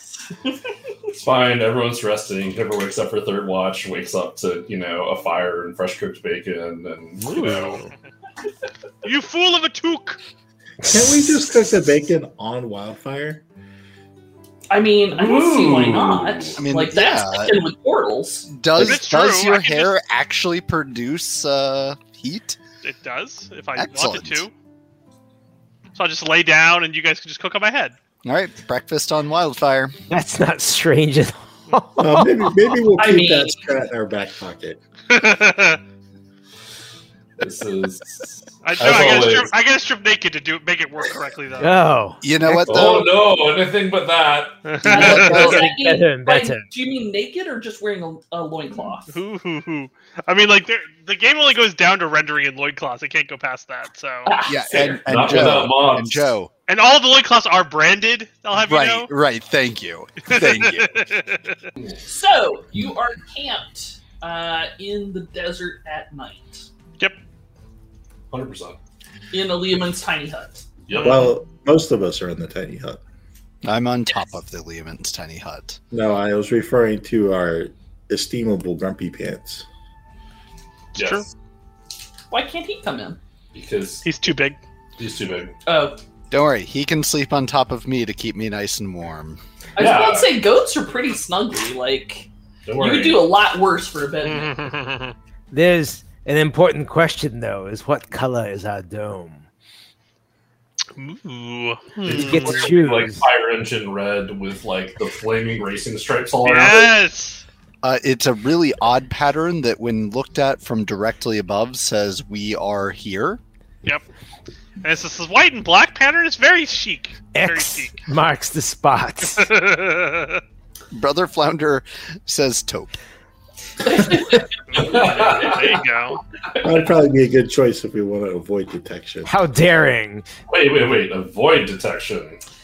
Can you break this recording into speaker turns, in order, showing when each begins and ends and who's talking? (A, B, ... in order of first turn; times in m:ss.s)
0:01.1-0:07.8 A
0:07.2-0:07.9 B
0:09.0-0:10.2 C
0:10.8-0:13.4 D
0:10.8-0:11.4 B
0:14.7-0:18.5 E
0:15.1-0:16.6 A
0:16.6-0:17.6 F
0:18.5-0:22.6 F
0:18.8-0:20.0 C
0:22.8-0:24.5 C
0:23.8-0:24.4 F
0:26.0-0:28.0 C
0:28.2-0:30.0 F
0:30.1-0:32.5 B
0:32.0-0:34.8 D
0:33.0-0:33.6 E
0:35.1-0:35.8 C
0:37.4-0:39.5 A
0:38.6-0:41.8 C
0:41.6-0:42.5 B
0:42.2-0:43.1 F
0:42.6-0:44.9 A
0:44.7-0:45.6 C
0:44.8-0:45.7 F
0:44.9-0:49.2 E
0:45.1-0:46.7 B
0:49.1-0:54.3 C
0:54.3-0:55.4 E
0:54.5-0:56.5 F
0:55.0-0:56.4 A
0:56.7-0:59.1 C
0:58.6-1:01.0 F
1:00.3-1:01.6 C
1:02.1-1:06.7 E
1:08.3-1:08.8 A
1:09.3-1:10.7 E
1:10.9-1:11.3 A
1:10.9-1:11.3 C
1:11.0-1:13.0 D
1:13.6-1:15.8 F
1:15.9-1:19.6 D
1:21.0-1:21.3 C
1:21.0-1:21.3 A
1:22.3-1:23.2 E
1:23.5-1:24.1 A
1:24.0-1:24.6 C
1:25.0-1:25.6 A
1:25.7-1:26.0 E
1:26.3-1:29.4 F
1:29.8-1:34.6 E
1:29.8-1:30.4 A
1:32.7-1:33.2 A
1:34.2-1:35.2 C
1:35.5-1:39.4 B
1:41.0-1:42.7 C
1:42.0-1:47.0 A
1:42.1-1:43.2 B
1:46.4-1:47.4 C
1:47.8-1:53.4 F
1:54.8-1:58.0 C
1:57.4-1:59.5 B
1:59.4-2:00.4 C
2:00.9-2:03.0 F
2:03.8-2:04.4 E
2:04.7-2:06.2 C
2:04.7-2:05.8 A
2:06.6-2:09.3 D
2:09.3-2:10.3 B
2:10.5-2:12.4 A